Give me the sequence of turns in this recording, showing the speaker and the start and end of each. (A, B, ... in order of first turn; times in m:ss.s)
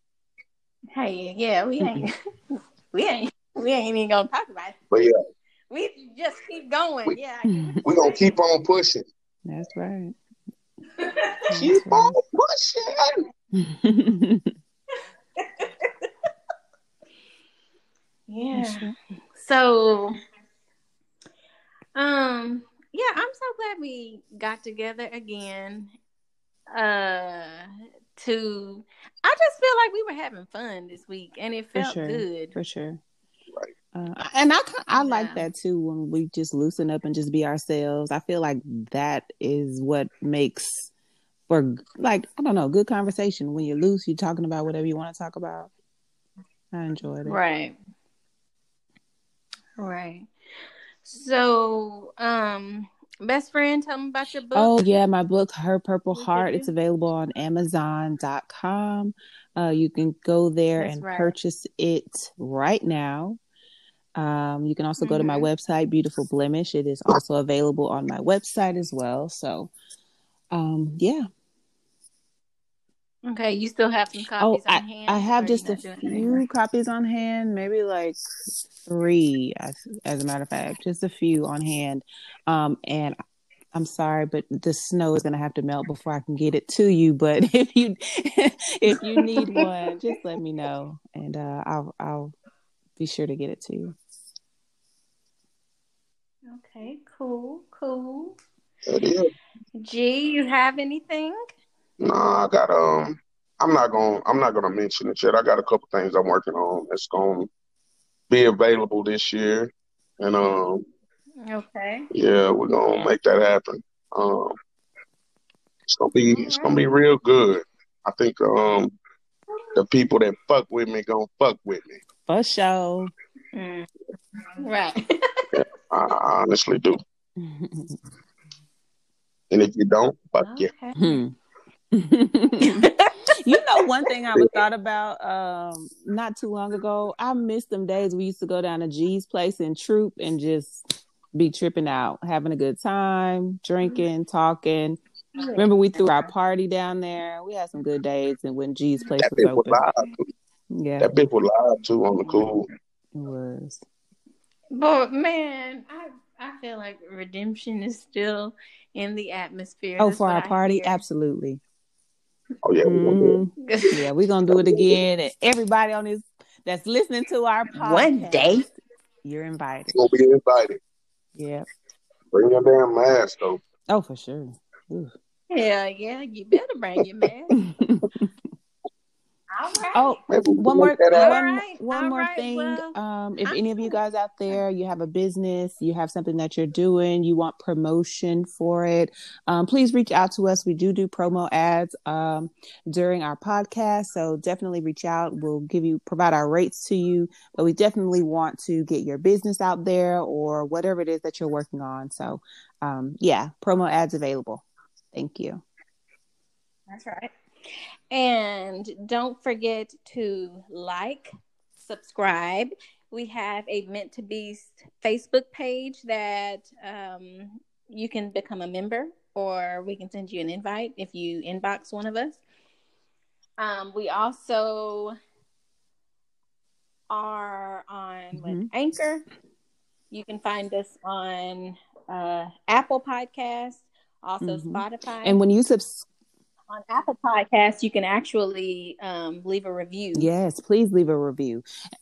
0:00.9-0:02.1 A
0:02.9-0:04.8 A
0:04.9-0:05.2 B
0:05.7-0:08.2 A
0:07.5-0:07.8 C
0:07.8-0:09.1 B
0:09.4-0:10.1 C
0:11.0-0:11.4 A
0:11.5-0:12.1 C
0:11.6-0:13.2 B
0:13.6-0:14.5 C
0:15.4-0:15.9 A
0:18.3-0:20.2 A
0:18.5-0:19.0 C
0:22.0-0:25.9 A
0:26.7-0:32.5 A
0:31.7-0:33.0 C
0:33.9-0:40.9 C
0:34.9-0:35.5 A
0:41.5-0:45.7 C
0:46.7-0:47.4 C
0:47.2-0:47.8 A
0:49.8-0:50.3 A
0:51.0-0:54.8 A
0:54.5-1:03.4 C
0:56.1-0:56.7 A
1:00.8-1:01.3 A
1:04.2-1:09.7 C
1:05.0-1:05.5 A
1:10.5-1:11.3 C
1:13.2-1:16.4 A
1:14.4-1:18.2 C
1:18.8-1:23.2 C
1:23.7-1:32.3 C
1:29.4-1:29.7 A
1:33.0-1:33.9 C
1:36.5-1:38.4 A
1:38.8-1:39.3 B
1:39.8-1:41.4 A
1:42.0-1:47.5 B
1:48.3-1:50.8 B
1:51.5-1:52.1 A
1:52.1-1:54.6 B
1:55.9-1:59.0 B
1:56.2-1:56.8 A
1:59.7-2:02.0 B
2:02.3-2:03.1 C
2:03.5-2:03.9 A
2:04.6-2:05.1 A
2:05.5-2:07.0 B
2:07.4-2:08.0 C
2:09.5-2:10.7 B
2:10.4-2:11.2 A
2:11.0-2:11.3 C
2:11.9-2:20.8 C
2:12.6-2:13.6 A
2:21.3-2:25.0 C
2:25.4-2:26.3 A
2:25.6-2:29.8 C
2:29.2-2:30.1 B
2:30.7-2:31.1 C
2:31.0-2:32.7 B
2:33.1-2:33.8 C
2:34.7-2:41.0 A
2:40.0-2:41.6 C
2:42.6-2:43.4 B
2:42.8-2:48.6 C
2:43.6-2:43.9 A
2:44.5-2:44.8 B
2:47.8-2:48.6 A
2:49.2-2:50.0 C
2:49.9-2:50.8 B
2:51.4-2:51.6 C
2:52.3-2:53.6 B
2:53.9-2:55.1 C
2:55.5-2:57.5 A
2:57.6-2:58.3 C
2:59.5-3:00.2 A
2:59.9-3:25.6 C
3:00.3-3:01.4 B
3:01.1-3:02.9 A
3:03.4-3:04.0 A
3:26.9-3:27.3 A
3:28.1-3:42.4 A
3:43.6-3:45.1 A
3:47.1-3:49.2 A
3:48.3-3:48.7 C
3:50.1-3:55.4 A
3:54.4-3:56.1 C
3:56.7-4:00.3 A
4:00.2-4:01.6 C